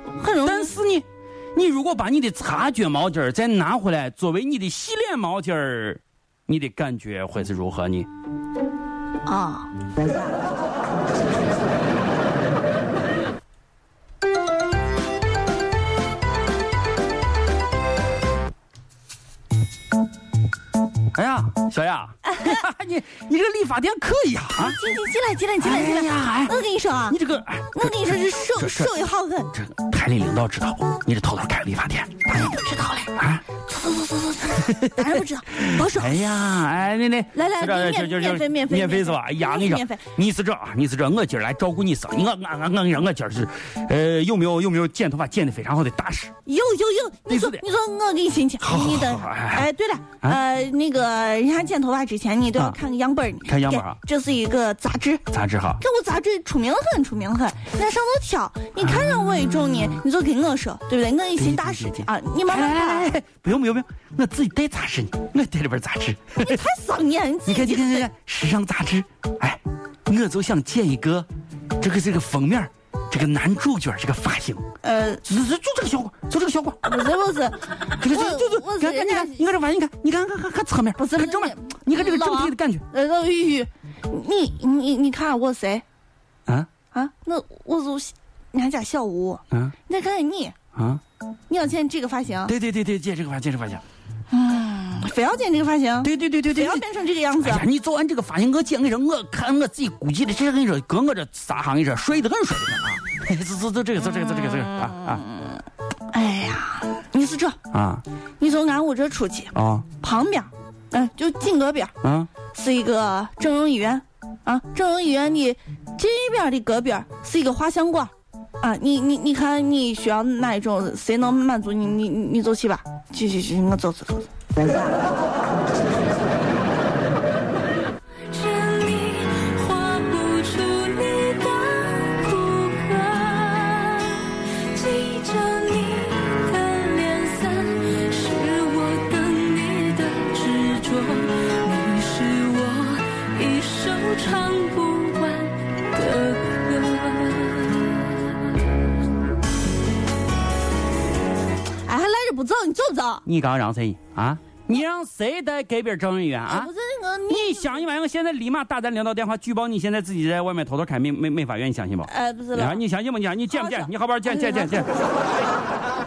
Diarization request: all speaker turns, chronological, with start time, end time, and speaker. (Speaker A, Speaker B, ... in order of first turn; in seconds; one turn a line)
Speaker A: 0.2-0.7
Speaker B: 0.4-8.1
Speaker A: 9.2-9.7
Speaker B: 21.1-24.8
Speaker A: 24.6-27.2
Speaker B: 25.6-28.9
Speaker A: 27.7-29.5
Speaker B: 29.5-32.4
Speaker A: 32.3-36.3
Speaker B: 33.1-33.4
Speaker B: 34.6-46.3
Speaker A: 37.3-40.1
Speaker A: 46.4-55.2
Speaker B: 47.3-47.6
Speaker B: 48.6-49.7
Speaker B: 53.4-54.0
Speaker B: 55.3-55.8
Speaker A: 55.8-63.1
Speaker B: 61.4-66.7
Speaker A: 66.4-68.1
Speaker B: 67.5-71.3
Speaker B: 71.8-74.6
Speaker A: 74.8-75.2
Speaker B: 75.2-76.8
Speaker A: 76.8-79.4
Speaker B: 78.0-82.8
Speaker A: 81.0-85.8
Speaker A: 86.9-90.5
Speaker B: 90.8-91.0
Speaker A: 91.5-92.5
Speaker B: 92.5-93.8
Speaker A: 94.3-97.6
Speaker B: 96.0-96.8
Speaker B: 97.4-105.2
Speaker A: 104.4-107.6
Speaker B: 107.7-108.0
Speaker A: 108.4-111.9
Speaker B: 109.5-109.9
Speaker B: 112.0-112.3
Speaker A: 112.5-124.3
Speaker C: 128.2-148.2
Speaker A: 151.8-153.2
Speaker B: 153.2-156.7
Speaker A: 156.5-157.8
Speaker B: 157.3-164.9
Speaker A: 162.1-162.8
Speaker A: 163.6-164.8